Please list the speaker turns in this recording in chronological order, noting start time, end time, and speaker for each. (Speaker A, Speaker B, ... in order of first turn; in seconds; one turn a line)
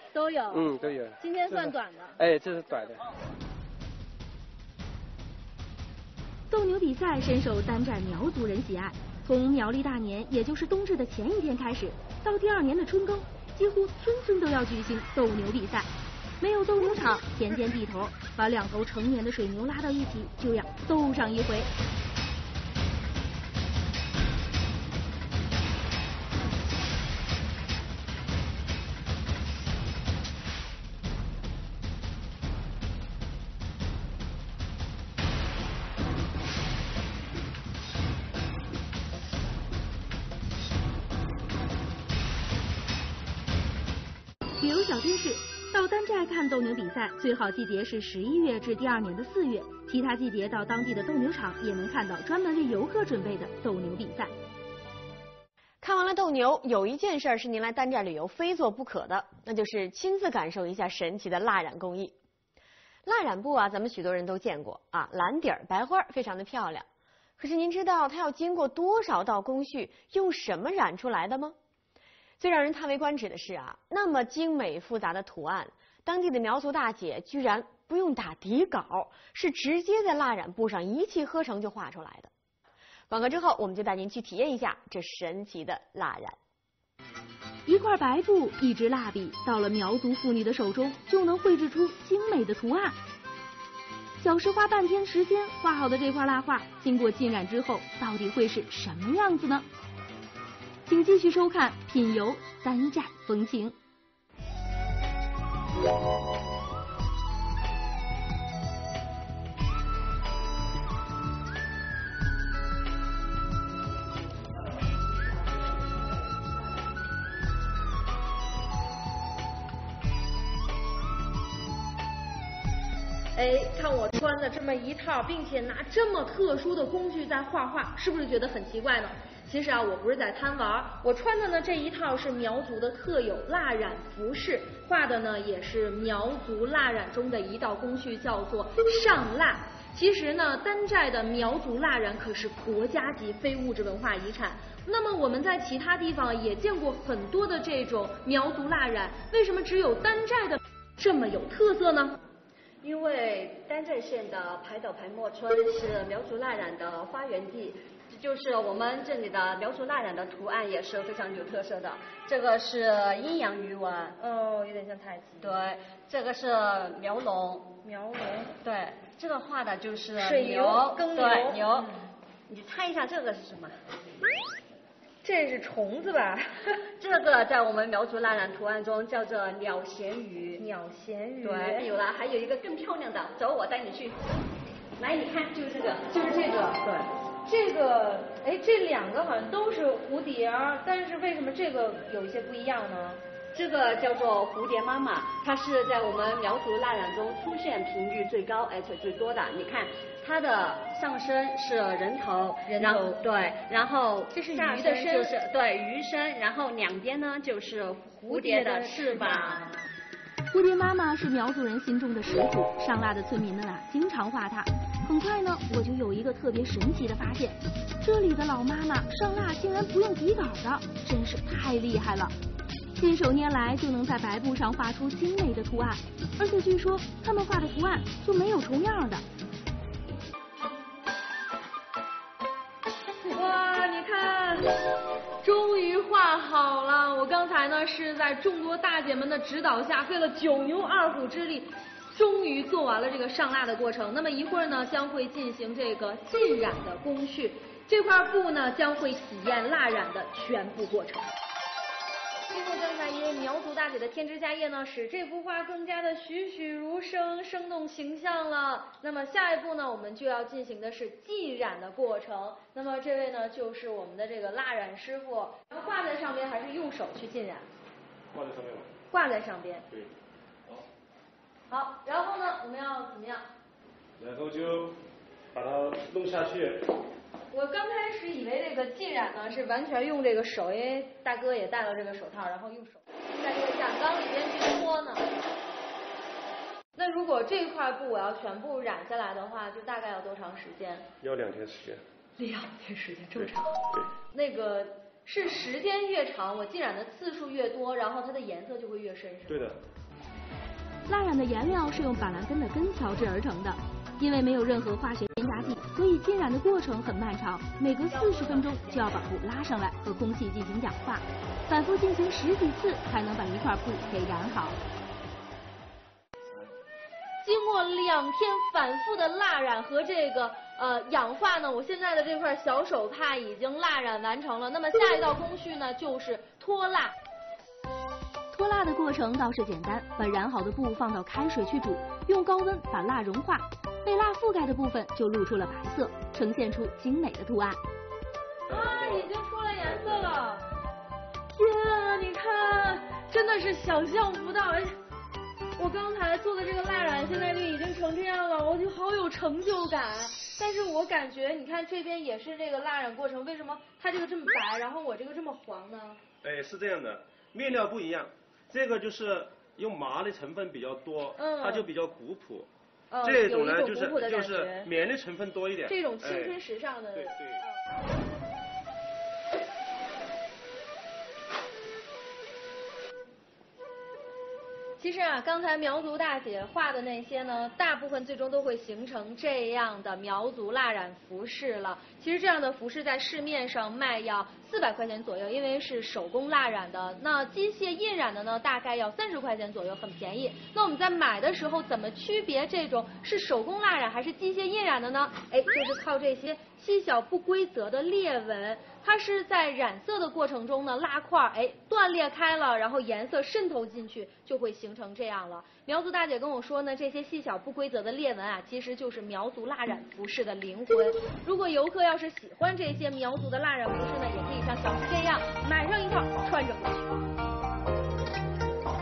Speaker A: 0.1-2.2
Speaker B: 0.5-3.0
Speaker C: 6.5-21.7
Speaker C: 44.6-54.3
Speaker D: 55.8-62.1
Speaker D: 63.0-66.9
Speaker D: 67.4-71.5
Speaker D: 72.4-82.3
Speaker D: 83.1-86.3
Speaker C: 87.7-93.0
Speaker C: 94.2-99.7
Speaker C: 100.8-103.8
Speaker A: 123.3-152.2
Speaker E: 152.8-164.1
Speaker A: 164.2-165.5
Speaker E: 165.4-167.7
Speaker A: 167.8-168.5
Speaker E: 168.6-171.9
Speaker A: 170.2-171.7
Speaker E: 172.5-173.8
Speaker A: 175.2-176.8
Speaker E: 177.0-180.6
Speaker A: 180.6-181.8
Speaker E: 181.4-184.2
Speaker E: 185.0-187.1
Speaker A: 186.1-186.8
Speaker A: 187.4-193.2
Speaker E: 193.5-209.7
Speaker A: 202.7-203.2
Speaker A: 204.3-205.3
Speaker A: 208.2-209.6
Speaker C: 210.5-222.3
Speaker C: 222.9-229.2
Speaker A: 233.2-234.7
Speaker A: 235.4-251.3
Speaker A: 252.5-267.7
Speaker F: 268.3-268.9
Speaker A: 269.1-269.9
Speaker A: 271.7-273.4
Speaker F: 274.2-275.0
Speaker F: 275.5-276.8
Speaker A: 277.5-285.2
Speaker A: 286.9-291.1
Speaker F: 291.2-292.0
Speaker A: 292.4-293.8
Speaker F: 293.4-294.1
Speaker A: 294.3-299.6
Speaker F: 299.5-299.8
Speaker C: 301.1-314.8
Speaker A: 308.1-309.0
Speaker A: 317.4-327.1
Speaker C: 328.5-337.8
Speaker F: 338.7-339.3
Speaker A: 338.7-340.6
Speaker F: 339.8-340.3
Speaker A: 341.5-344.9
Speaker A: 345.8-356.2
Speaker F: 356.4-362.7
Speaker A: 361.4-361.9
Speaker A: 363.1-364.9
Speaker F: 363.2-366.6
Speaker A: 365.9-367.4
Speaker F: 367.1-367.6
Speaker A: 375.0-417.2